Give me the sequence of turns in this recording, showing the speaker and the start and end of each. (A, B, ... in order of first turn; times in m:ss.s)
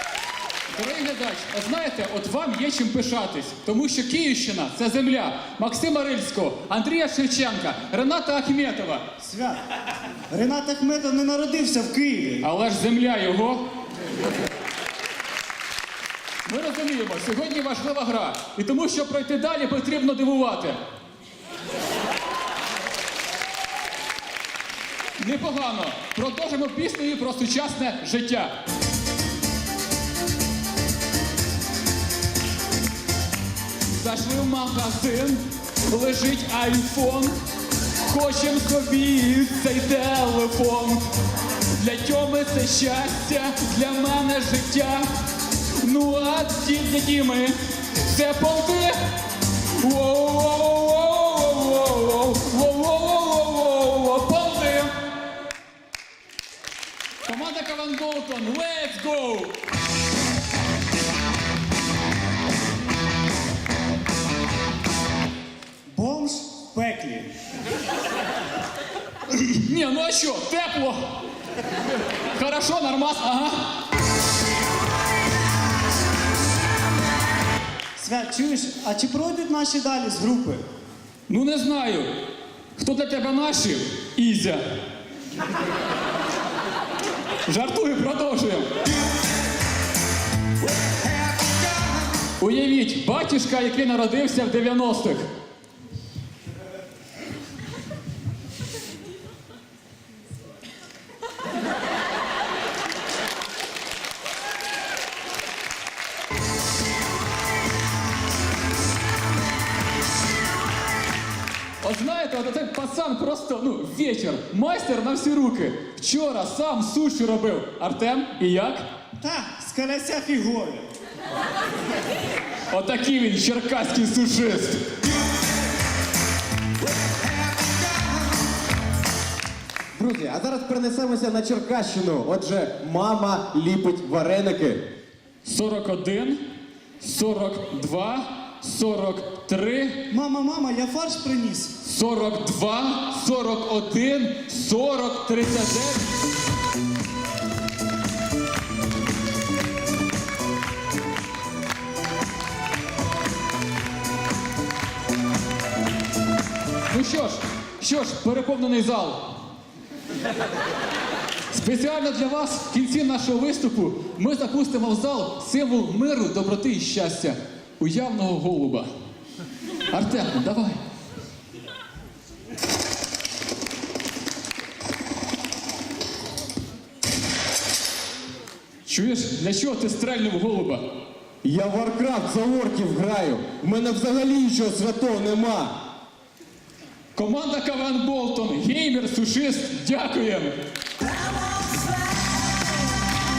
0:00.7-0:09.1 A
0:09.2-0:09.6 B
0:10.3-0:12.5 B
0:12.4-0:13.6 A
0:16.4-0:20.8 A
0:25.2-0:28.5 A
0:33.8-0:37.4 A
0:38.1-0:41.0 A
0:41.7-0:45.1 A
0:45.8-0:49.0 A
0:49.8-0:54.9 A
0:57.2-0:59.6 A
1:05.9-1:07.3 B
1:09.3-1:11.2 A
1:12.3-1:13.7 A
1:18.0-1:20.6 B
1:21.3-1:22.1 A
1:22.8-1:24.6 A
1:27.5-1:28.8 A
1:32.4-1:35.3 A
1:51.8-1:58.9 A
1:59.2-2:00.9 B
2:02.7-2:04.9 A
2:10.0-2:14.8 C
2:15.4-2:16.4 A
2:17.0-2:20.0 A
2:20.1-2:21.7 B
2:21.8-2:26.1 A
2:36.9-2:39.4 A
2:41.5-2:48.9 A
2:49.9-2:50.8 A
2:58.9-3:00.8 A
3:01.4-3:05.8 C
3:07.2-3:10.6 A